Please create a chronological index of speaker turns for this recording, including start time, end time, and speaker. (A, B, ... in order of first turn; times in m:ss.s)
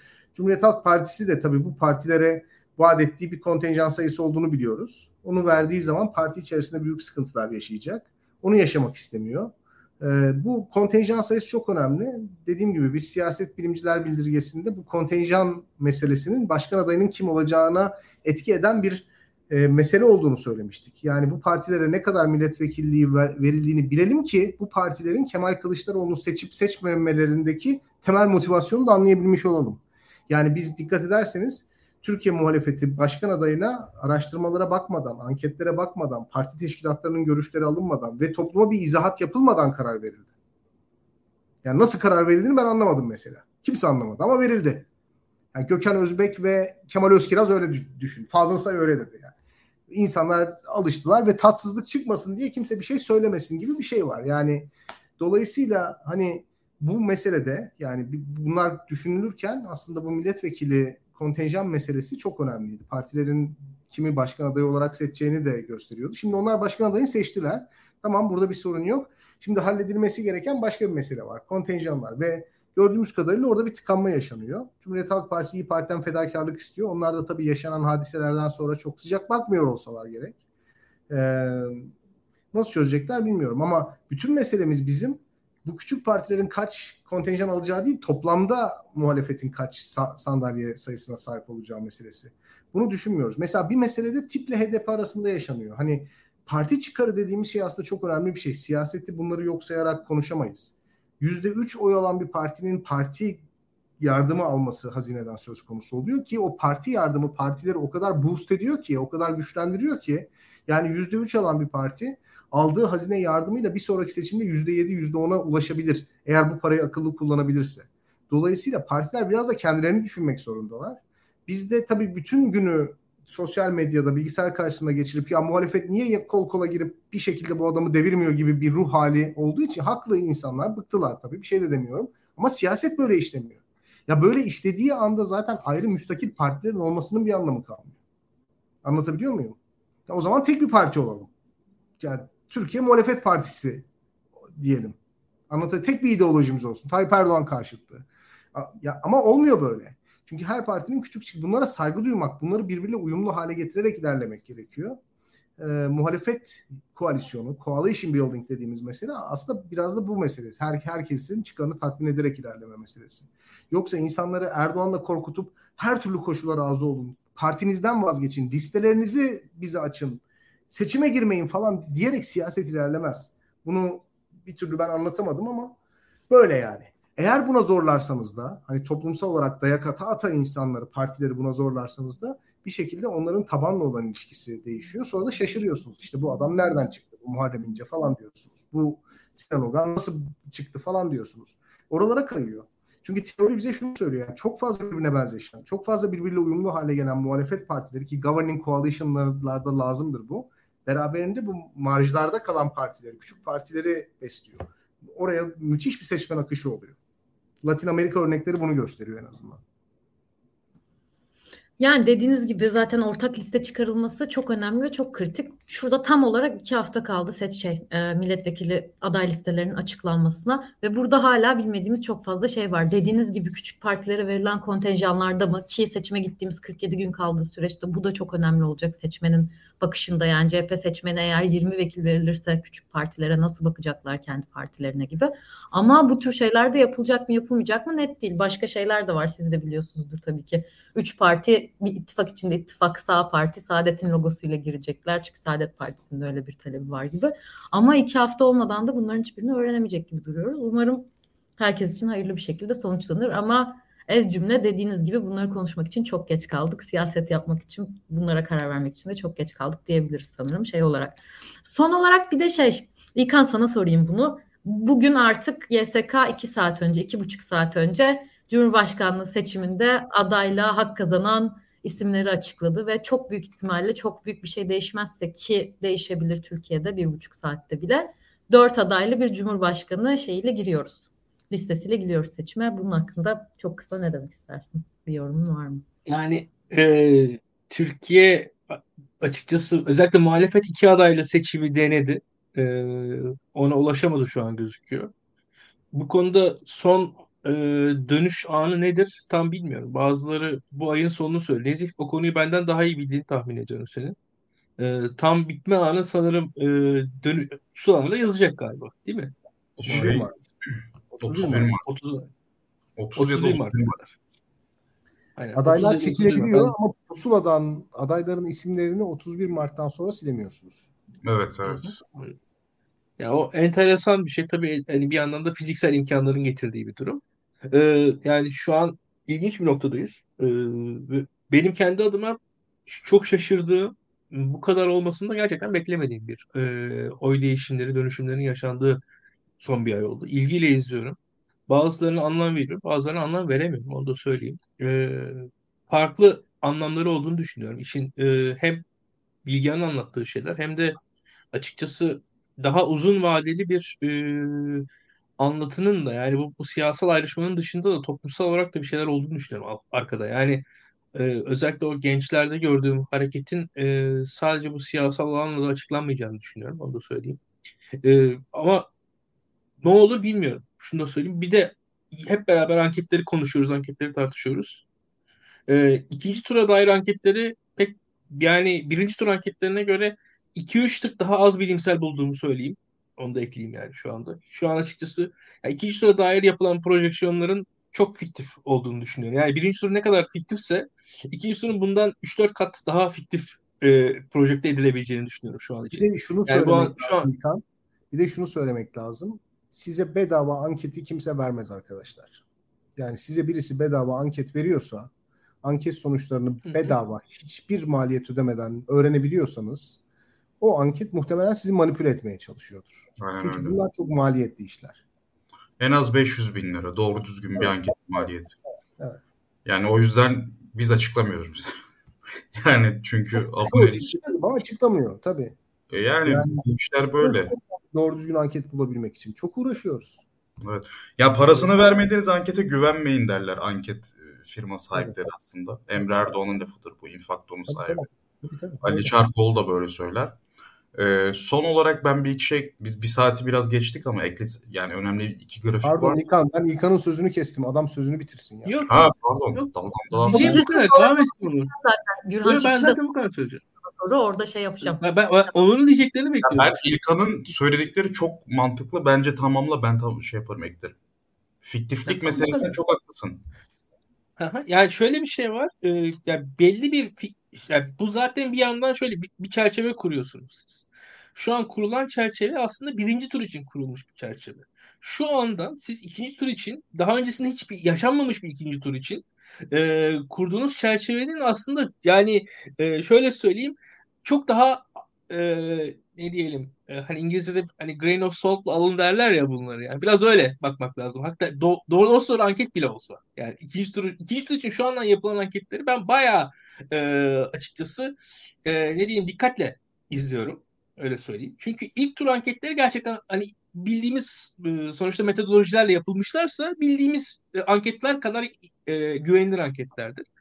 0:00.3-0:40.3 A
0:41.6-0:44.9 A
0:45.5-0:49.3 A
0:49.9-1:20.4 A
1:21.1-1:21.9 A
1:22.5-1:43.4 A
1:44.0-2:18.0 A
2:18.8-2:21.3 A
2:22.0-2:23.8 A
2:24.4-2:25.0 A
2:25.5-2:35.0 A
2:35.6-2:55.8 A
2:56.3-3:27.0 A
3:27.6-3:29.6 A
3:31.8-4:45.8 B
4:46.1-4:55.1 C
4:55.9-5:04.2 C
5:04.8-5:10.3 C
5:09.8-5:11.8 D
5:09.8-5:10.3 A
5:11.1-5:11.7 A
5:11.4-5:12.3 C
5:13.0-5:14.0 D
5:13.2-5:14.1 C
5:15.4-5:16.7 C
5:15.5-5:20.9 A
5:21.2-5:22.0 D
5:21.6-5:22.4 C
5:23.2-5:39.0 C
5:39.6-5:41.2 C
5:41.7-5:48.8 C
5:49.4-5:51.0 C
5:51.5-5:54.8 C
5:55.4-6:07.4 C
6:08.0-6:08.9 C
6:09.8-6:14.8 C
6:15.7-6:37.3 C
6:35.9-6:42.4 A
6:43.0-6:45.1 A
6:45.6-6:50.0 A
6:46.6-6:46.9 C
6:50.6-6:55.0 A
6:53.2-6:53.8 D
6:55.8-6:58.6 D
6:57.6-6:58.3 A
6:59.6-7:01.8 D
7:02.5-7:04.2 D
7:03.7-7:05.6 A
7:05.9-7:07.5 D
7:06.2-7:06.6 A
7:07.2-7:10.2 A
7:10.6-7:18.0 D
7:17.7-7:19.1 A
7:18.8-7:20.4 D
7:20.9-7:26.2 D
7:25.8-7:28.8 A
7:28.6-7:31.7 C
7:28.9-7:30.6 D
7:30.3-7:33.0 B
7:32.4-7:33.6 C
7:33.8-7:35.0 B
7:34.8-7:37.0 C
7:36.4-7:41.0 D
7:41.6-7:43.4 D
7:42.0-7:42.7 C
7:44.4-8:30.2 C